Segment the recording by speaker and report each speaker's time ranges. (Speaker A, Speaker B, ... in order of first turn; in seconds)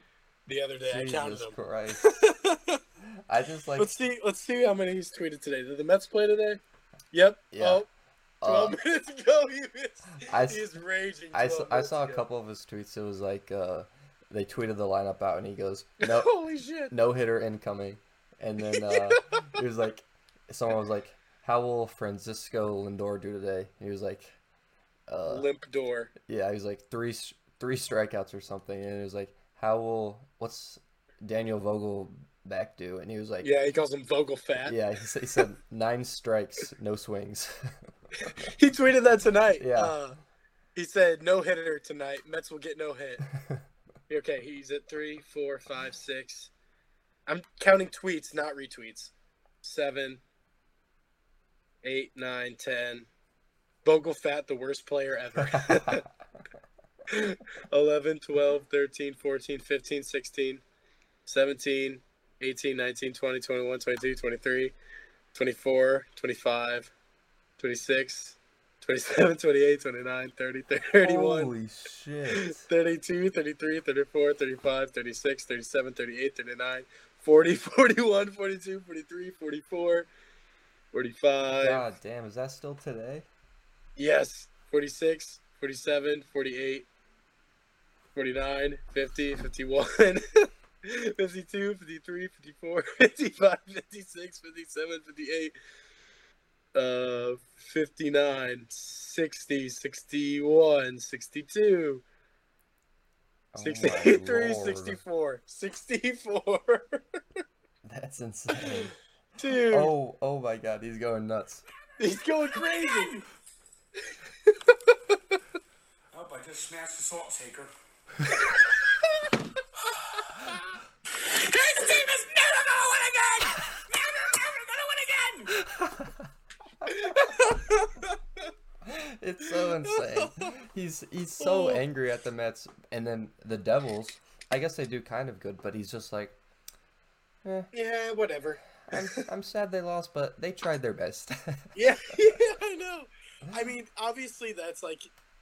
Speaker A: 0.5-2.8, 3.8-6.6, 7.1-7.9, 8.4-12.2, 16.0-16.9, 18.7-19.4, 25.3-26.1, 33.4-34.8, 38.2-40.2, 40.8-43.2, 44.1-46.5, 47.3-49.1, 49.6-50.2, 51.8-53.1, 53.9-56.1, 57.1-60.6, 61.3-64.7, 65.3-66.9, 67.6-71.5, 72.3-80.1, 80.9-81.8, 84.0-86.9, 88.2-95.5, 96.8-102.0, 103.6-107.0, 108.7-109.9, 112.0-113.2, 114.1-115.4, 126.9-128.4, 129.9-130.5, 131.4-131.8, 137.7-139.2, 141.8-145.1
Speaker B: 0.9-2.1, 3.0-3.9, 7.5-7.8, 8.4-8.8, 10.2-10.7, 11.3-16.3, 16.9-24.4, 25.1-25.5, 26.2-33.5, 34.6-38.5, 39.6-40.0, 43.3-43.6, 55.5-56.1, 71.0-72.6, 81.6-83.3, 103.5-105.0, 107.8-109.0, 109.7-111.7, 125.5-126.3, 126.8-127.4, 128.8-136.4, 137.4-137.7, 138.9-141.8
Speaker C: 112.6-113.1, 116.1-117.7, 121.2-125.5